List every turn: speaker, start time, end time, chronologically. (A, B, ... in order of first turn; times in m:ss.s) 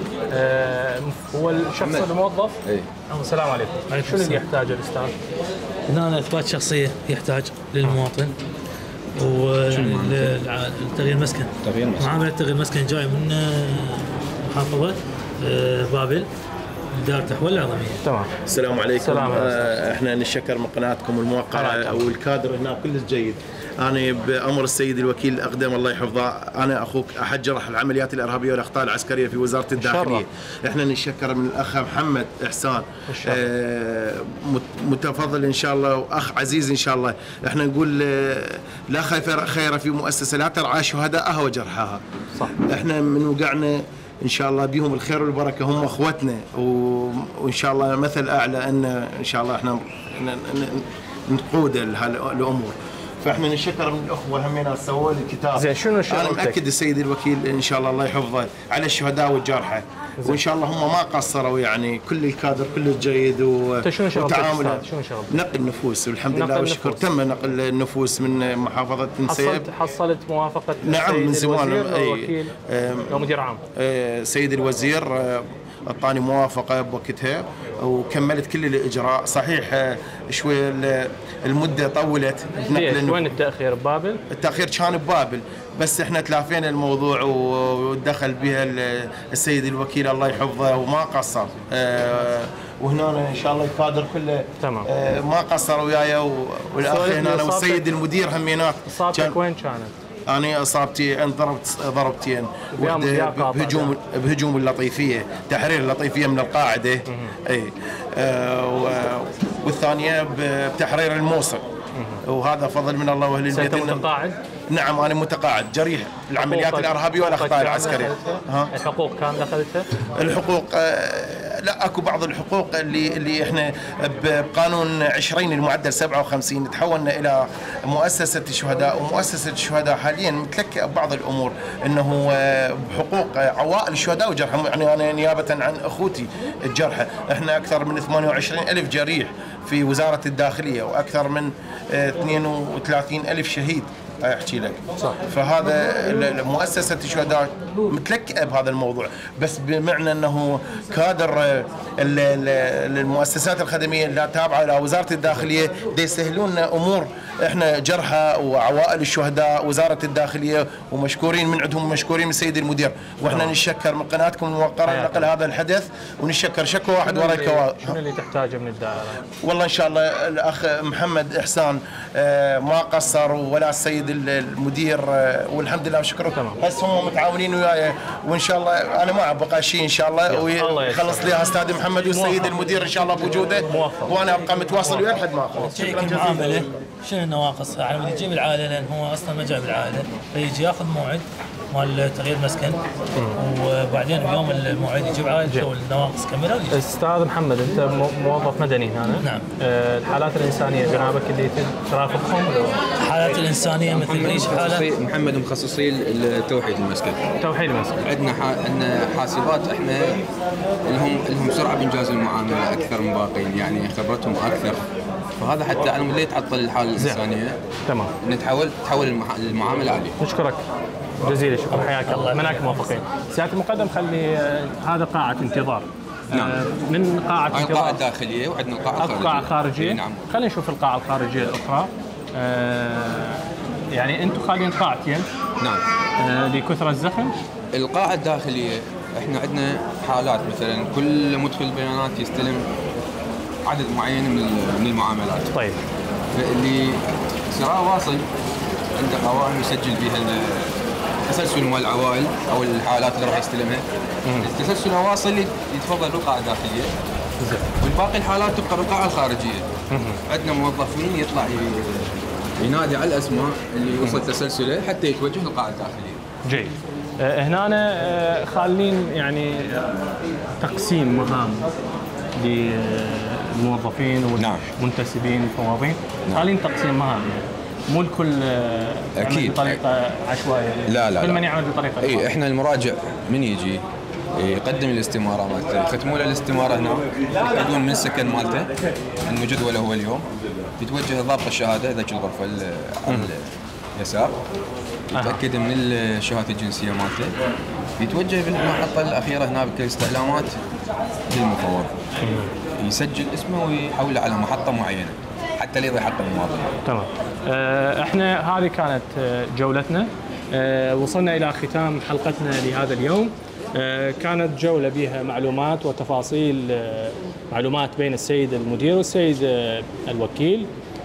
0:00.3-0:02.6 A
0:01.8-0:02.1 B
0:02.6-0:02.9 B
0:03.1-0:05.1 A
0:03.9-0:04.4 C
0:05.9-0:08.3 C
0:09.1-0:16.3 C
0:09.7-0:10.3 B
0:11.6-0:12.2 B
0:16.9-0:18.0 C
0:18.0-0:18.3 A
0:18.4-1:09.6 D
0:19.0-0:19.5 A
0:21.5-0:22.0 A
0:29.8-0:30.2 A
0:33.1-0:33.4 A
0:55.5-0:56.6 A
1:03.8-1:05.4 A
1:06.3-1:07.0 A
1:09.2-1:12.5 A
1:10.8-1:13.1 D
1:13.1-1:13.6 A
1:13.8-1:23.3 D
1:22.7-1:24.2 A
1:24.3-1:39.3 D
1:34.6-1:34.9 A
1:36.8-1:37.9 A
1:38.8-1:39.9 A
1:40.3-1:51.6 D
1:42.7-1:43.9 A
1:47.1-1:47.4 A
1:52.3-1:54.0 D
1:53.5-1:54.4 A
1:54.7-1:58.7 D
1:56.3-2:00.0 A
2:00.1-2:48.0 D
2:43.3-2:43.5 A
2:44.9-2:45.3 A
2:47.0-2:49.2 A
2:49.4-3:06.7 D
3:00.3-3:01.4 A
3:02.1-3:02.5 A
3:03.6-3:04.2 A
3:05.6-3:16.8 C
3:16.7-3:22.7 A
3:19.2-3:19.5 C
3:23.0-3:24.9 C
3:23.9-3:27.2 B
3:27.4-3:28.0 A
3:28.0-3:30.2 B
3:30.8-3:34.8 B
3:35.4-3:37.6 B
3:37.9-3:38.1 A
3:38.2-3:40.2 B
3:40.2-3:40.6 A
3:41.2-3:48.0 A
3:42.0-3:43.0 C
3:46.3-3:46.6 B
3:47.5-3:50.3 B
3:49.0-3:53.4 A
3:53.9-3:55.3 A
3:56.2-3:57.3 A
3:57.7-4:02.7 B
4:03.6-4:05.5 B
4:05.5-4:05.8 A
4:06.3-4:08.2 B
4:09.0-4:13.8 B
4:14.4-4:16.9 B
4:17.4-4:17.7 A
4:17.8-4:19.7 B
4:19.9-4:20.2 A
4:20.3-4:26.2 B
4:24.0-4:24.2 A
4:26.4-4:29.9 A
4:30.6-4:31.7 A
4:32.4-4:42.3 A
4:34.4-4:34.6 B
4:39.2-4:39.8 B
4:40.9-4:41.4 B
4:42.0-4:43.8 B
4:44.4-4:48.7 B
4:49.2-4:50.2 B
4:50.8-4:54.4 B
4:55.1-4:57.3 B
4:55.2-4:55.4 A
4:58.0-5:00.6 B
5:01.3-5:02.0 B
5:02.2-5:02.5 A
5:02.8-5:06.7 B
5:06.8-5:20.7 A